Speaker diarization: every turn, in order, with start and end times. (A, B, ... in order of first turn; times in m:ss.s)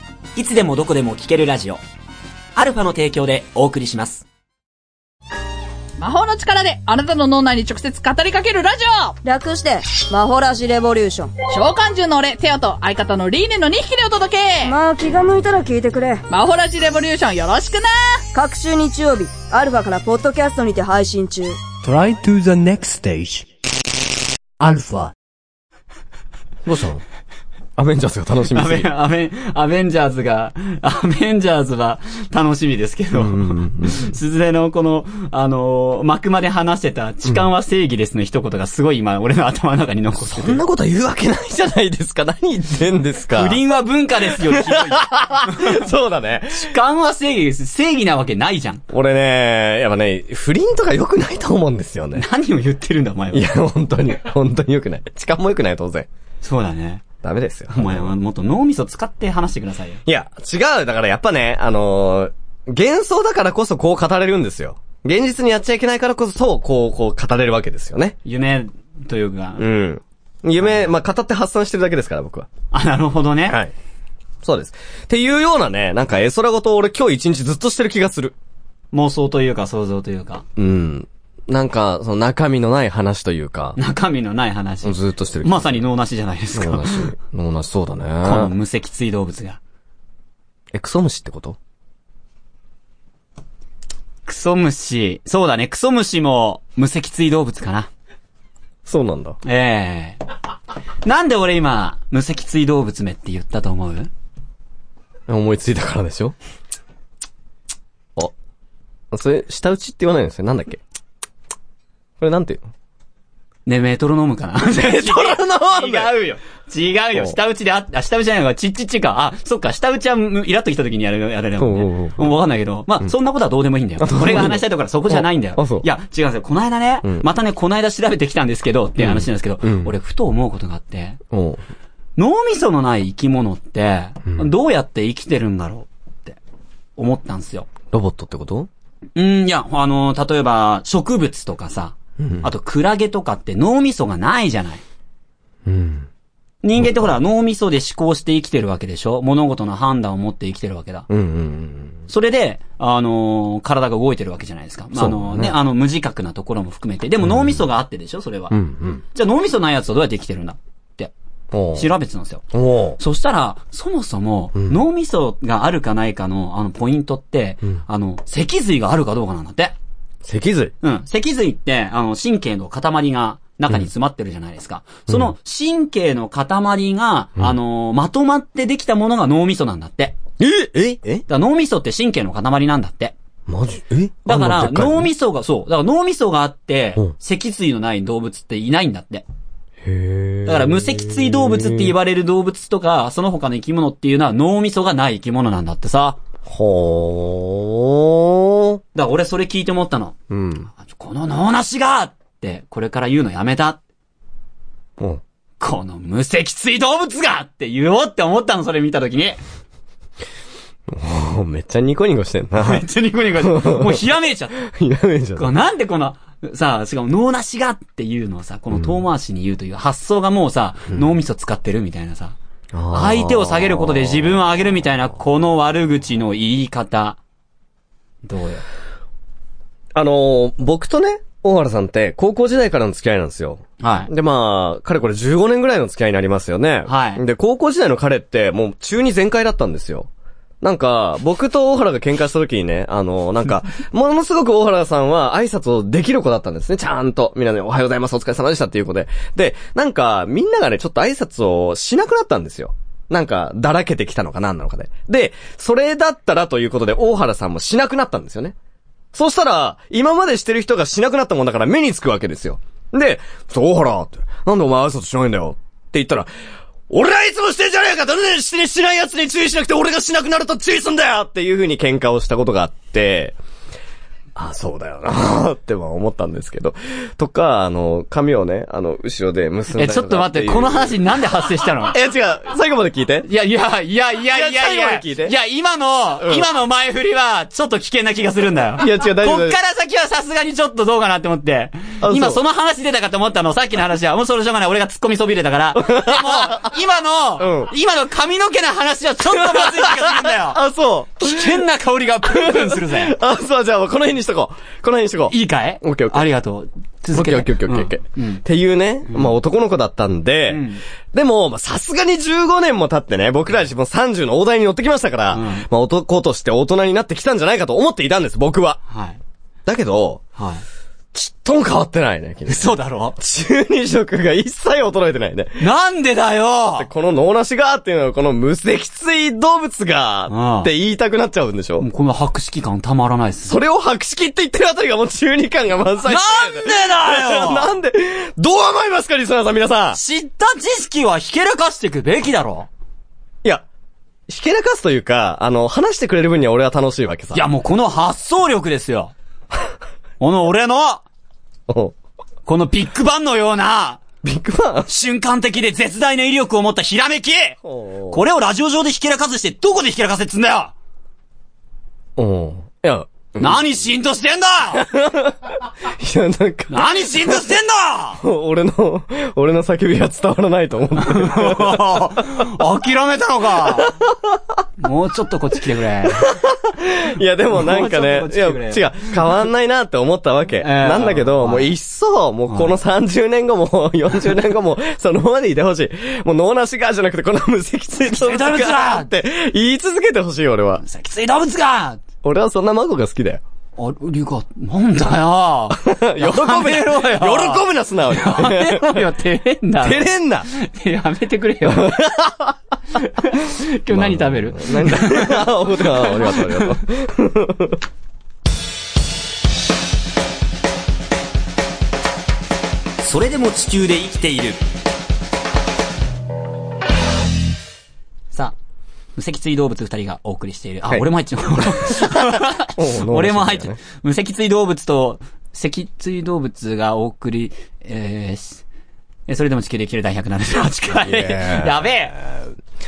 0:00.4-0:01.8 A
0:02.6-0:04.2 A
0:06.0-0:09.2 B
0:09.2-0:11.3 C
0:11.5-0:14.8 B
0:14.6-0:16.2 C
0:16.3-0:18.2 B
0:18.3-0:21.6 C
0:21.8-0:23.5 D
0:24.6-0:25.1 D
0:26.6-0:27.0 E
0:27.8-0:28.9 E
0:28.5-0:40.6 A
0:33.1-0:34.1 E
0:40.2-0:43.6 E
0:43.3-0:45.8 A
0:44.3-0:46.8 E
0:46.5-0:48.8 A
0:48.9-0:52.3 E
0:52.2-0:53.5 A
0:53.3-0:56.1 E
0:56.4-0:57.0 A
0:57.2-0:58.1 E
0:57.7-1:00.0 A
1:00.0-1:08.2 E
1:08.2-1:09.7 A
1:09.6-1:12.5 E
1:10.6-1:10.9 A
1:12.7-1:13.6 A
1:13.5-1:13.7 E
1:14.4-1:18.4 E
1:18.9-1:20.4 A
1:20.6-1:23.8 E
1:23.8-1:27.1 A
1:24.8-1:25.8 E
1:26.5-1:28.5 E
1:28.2-1:29.6 A
1:30.7-1:31.6 E
1:34.3-1:37.9 A
1:38.9-1:39.4 E
1:39.4-1:40.2 A
1:41.0-1:44.1 A
1:45.3-1:46.4 E
1:49.1-1:50.8 E
1:52.2-1:52.7 E
1:53.7-2:11.2 A
1:54.7-1:56.1 E
2:01.6-2:02.4 E
2:04.0-2:05.8 E
2:09.0-2:09.9 E
2:11.3-2:11.6 E
2:12.2-2:16.4 A
2:17.0-2:17.7 A
2:17.9-2:18.7 E
2:19.2-2:24.8 A
2:22.2-2:22.5 E
2:25.6-2:26.1 E
2:26.6-2:31.1 A
2:26.8-2:27.1 E
2:31.1-2:32.0 E
2:32.1-2:38.6 A
2:35.0-2:35.6 E
2:37.2-2:37.6 E
2:38.5-2:39.0 E
2:39.1-2:41.1 A
2:41.5-2:41.9 E
2:41.7-2:42.4 A
2:42.5-2:43.0 E
2:43.0-2:49.8 A
2:50.2-2:50.7 E
2:50.8-3:00.2 A
2:55.1-2:55.3 E
3:00.4-3:01.2 E
3:01.3-3:03.2 A
3:03.5-3:05.1 E
3:04.3-3:09.2 A
3:09.8-3:11.9 E
3:10.4-3:16.2 A
3:16.4-3:18.8 E
3:19.0-3:20.2 A
3:20.3-3:20.7 E
3:20.8-3:23.8 A
3:25.6-3:29.4 A
3:30.9-3:32.9 E
3:32.6-3:34.6 A
3:33.4-3:35.5 E
3:35.4-3:42.4 A
3:42.7-3:44.8 E
3:42.9-3:47.2 A
3:48.2-3:48.6 A
3:49.9-4:00.1 E
3:53.8-3:54.1 A
3:56.9-3:57.2 A
4:00.6-4:18.6 E
4:19.1-4:26.3 E
4:26.9-4:33.4 E
4:34.4-4:41.0 E
4:39.8-4:42.0 A
4:41.8-4:43.3 E
4:43.3-5:00.6 A
4:44.3-4:45.4 E
4:46.2-4:46.5 E
4:48.8-4:49.6 E
4:52.0-4:52.4 E
4:55.8-4:56.7 E
4:57.4-4:57.7 E
4:59.3-5:01.6 E
5:01.2-5:03.2 A
5:02.2-5:06.2 E
5:05.3-5:08.4 A
5:07.1-5:18.8 E
5:09.1-5:09.4 A
5:10.5-5:10.8 A
5:15.3-5:15.7 A
5:18.9-5:19.2 A
5:19.7-5:20.2 E
5:20.4-5:20.6 A
5:21.1-5:25.6 E
5:22.5-5:23.2 A
5:25.6-5:26.9 A
5:26.8-5:31.9 E
5:30.3-5:30.7 A
5:31.8-5:33.6 A
5:33.4-5:40.0 E
5:36.0-5:37.7 A
5:39.9-5:42.7 A
5:44.3-5:47.4 E
5:47.3-5:49.1 A
5:50.2-5:51.0 A
5:51.7-5:52.0 E
5:52.5-5:54.0 A
5:54.2-5:54.9 E
5:54.9-5:57.6 A
5:57.6-5:58.2 E
5:58.1-6:00.7 A
6:02.2-6:03.7 E
6:03.4-6:04.8 A
6:04.7-6:07.5 E
6:06.7-6:08.2 A
6:08.2-6:12.4 E
6:11.0-6:14.0 A
6:13.6-6:14.4 E
6:14.8-6:16.3 A
6:16.2-6:30.8 E
6:17.5-6:19.2 A
6:20.6-6:21.7 A
6:22.5-6:22.8 A
6:28.1-6:29.1 A
6:30.8-6:32.0 A
6:32.2-6:33.4 E
6:33.8-6:42.0 A
6:35.7-6:39.1 E
6:39.8-6:40.5 E
6:41.7-6:42.6 E
6:43.0-6:46.8 A
6:43.9-6:47.8 E
6:53.0-6:54.6 A
6:59.2-7:08.6 A
7:01.9-7:02.1 E
7:02.7-7:03.8 E
7:09.3-7:12.2 A
7:10.9-7:12.5 E